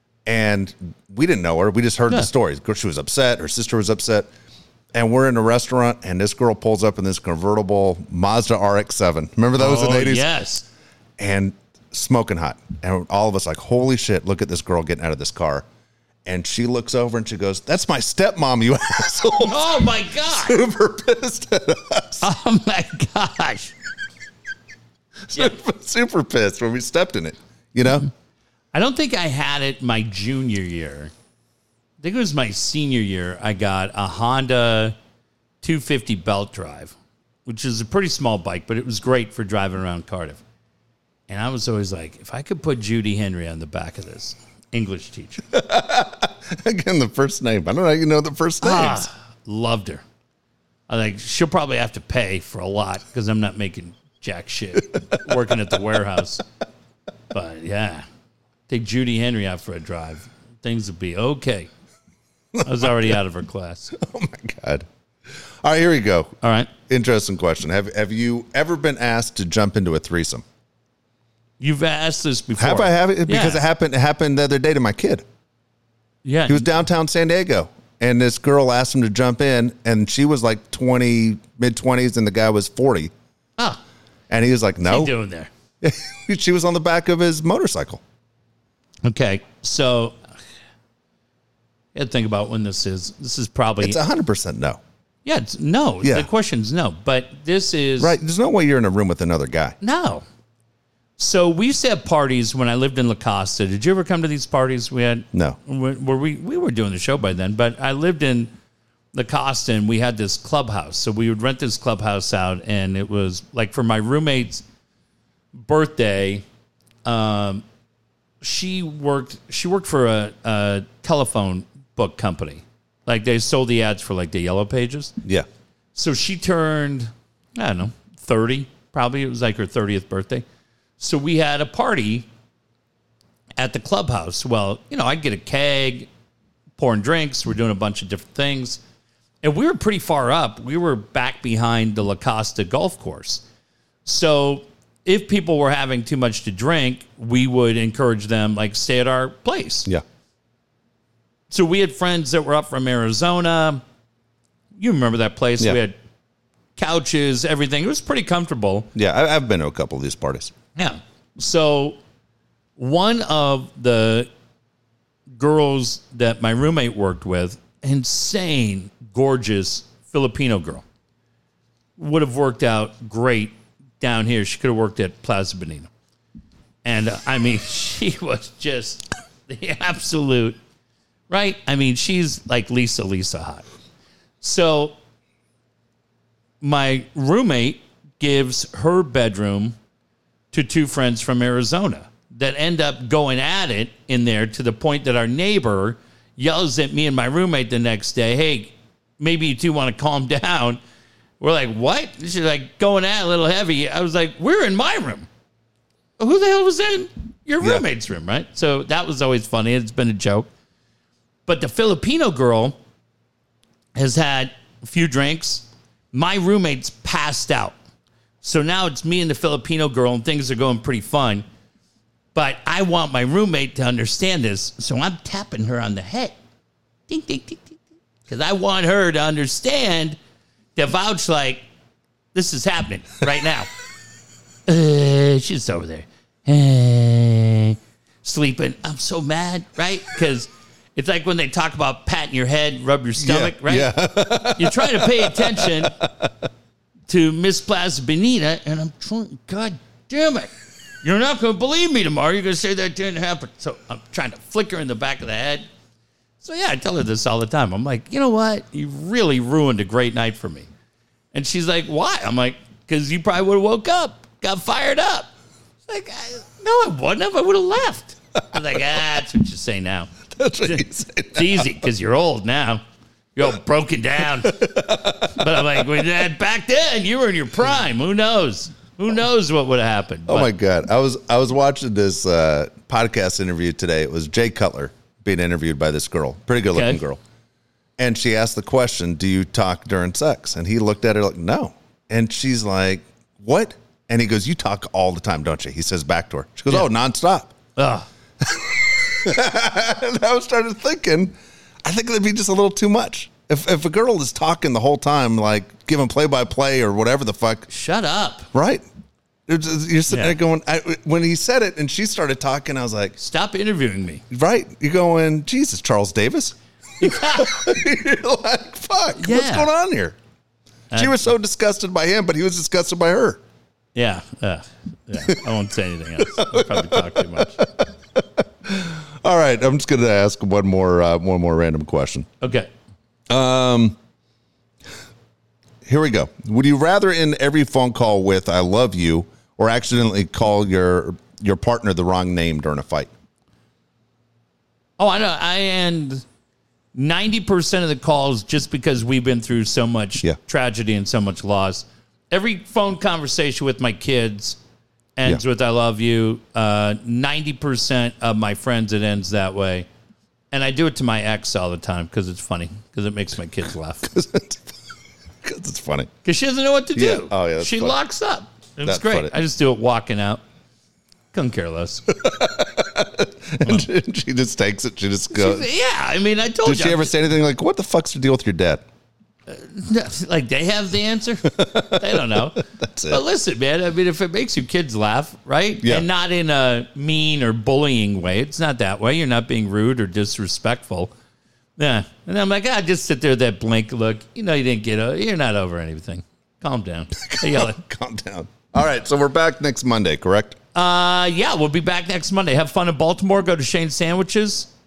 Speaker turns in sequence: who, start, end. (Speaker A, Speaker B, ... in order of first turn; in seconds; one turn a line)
Speaker A: 0.2-4.3
Speaker A: 4.9-10.2
Speaker B: 9.6-10.7
Speaker A: 11.2-15.7
Speaker A: 16.2-22.3
Speaker B: 19.4-20.6
Speaker B: 22.2-23.7
Speaker A: 25.3-28.1
Speaker B: 28.7-31.1
Speaker B: 32.0-34.9
Speaker B: 35.6-36.9
Speaker B: 37.5-40.4
Speaker B: 41.3-45.4
Speaker A: 45.5-49.1
Speaker B: 48.6-50.0
Speaker B: 50.9-56.4
Speaker B: 57.3-58.0
Speaker B: 58.7-61.7
Speaker A: 62.5-63.1
Speaker B: 62.6-63.9
Speaker A: 63.9-66.3
Speaker B: 66.4-66.7
Speaker A: 66.9-70.4
Speaker B: 71.6-73.6
Speaker A: 72.6-75.2
Speaker B: 76.2-76.7
Speaker A: 76.5-83.1
Speaker A: 84.3-85.1
Speaker B: 84.9-85.5
Speaker A: 85.8-88.0
Speaker B: 89.0-90.2
Speaker B: 91.9-94.0
Speaker A: 93.8-94.8
Speaker B: 95.2-98.2
Speaker A: 98.0-99.8
Speaker B: 99.8-100.2
Speaker B: 101.2-108.5
Speaker A: 105.3-105.6
Speaker B: 109.1-114.6
Speaker B: 115.5-116.4
Speaker B: 117.0-117.6
Speaker B: 118.4-125.1
Speaker B: 125.9-130.4
Speaker B: 131.0-132.2
Speaker B: 133.6-136.1
Speaker B: 136.8-138.8
Speaker B: 139.4-143.4
Speaker B: 144.1-149.9
Speaker B: 151.5-153.8
Speaker B: 154.8-155.9
Speaker B: 156.8-158.9
Speaker A: 158.9-160.5
Speaker B: 160.8-162.0
Speaker B: 162.8-164.3
Speaker B: 165.3-170.8
Speaker B: 172.0-175.9
Speaker B: 176.8-180.6
Speaker B: 181.3-183.6
Speaker B: 184.4-184.9
Speaker B: 186.6-189.8
Speaker B: 190.5-200.8
Speaker B: 201.4-205.3
Speaker B: 206.2-210.5
Speaker B: 211.4-212.8
Speaker B: 213.9-217.8
Speaker B: 218.4-221.4
Speaker B: 222.3-226.3
Speaker B: 227.1-230.2
Speaker B: 230.8-231.6
Speaker B: 232.3-233.7
Speaker B: 234.7-245.9
Speaker A: 243.2-246.3
Speaker B: 247.1-250.5
Speaker B: 251.0-255.6
Speaker B: 256.4-260.7
Speaker B: 261.3-265.3
Speaker B: 265.9-272.8
Speaker A: 270.3-271.8
Speaker B: 273.3-280.5
Speaker A: 274.4-276.0
Speaker A: 280.3-287.2
Speaker B: 286.7-287.0
Speaker A: 288.0-297.5
Speaker B: 297.8-298.1
Speaker A: 298.4-307.7
Speaker B: 307.7-308.5
Speaker A: 308.5-308.8
Speaker A: 309.5-313.1
Speaker B: 310.1-310.4
Speaker B: 313.2-314.2
Speaker A: 314.3-320.2
Speaker B: 317.0-317.7
Speaker B: 319.1-319.7
Speaker B: 320.9-321.2
Speaker A: 320.9-323.4
Speaker B: 323.9-327.6
Speaker A: 326.2-332.3
Speaker B: 332.4-332.7
Speaker A: 333.3-333.9
Speaker A: 335.9-343.1
Speaker B: 345.0-346.2
Speaker B: 346.9-354.6
Speaker B: 355.1-359.9
Speaker B: 360.5-364.1
Speaker A: 364.0-364.8
Speaker A: 365.4-366.1
Speaker B: 366.2-370.4
Speaker A: 366.9-367.9
Speaker A: 368.8-369.3
Speaker B: 371.3-372.1
Speaker A: 372.1-375.7
Speaker B: 375.3-377.1
Speaker A: 376.6-378.8
Speaker B: 379.5-391.1
Speaker A: 381.5-383.2
Speaker A: 385.8-386.1
Speaker B: 391.8-397.8
Speaker A: 397.2-400.6
Speaker B: 400.7-404.7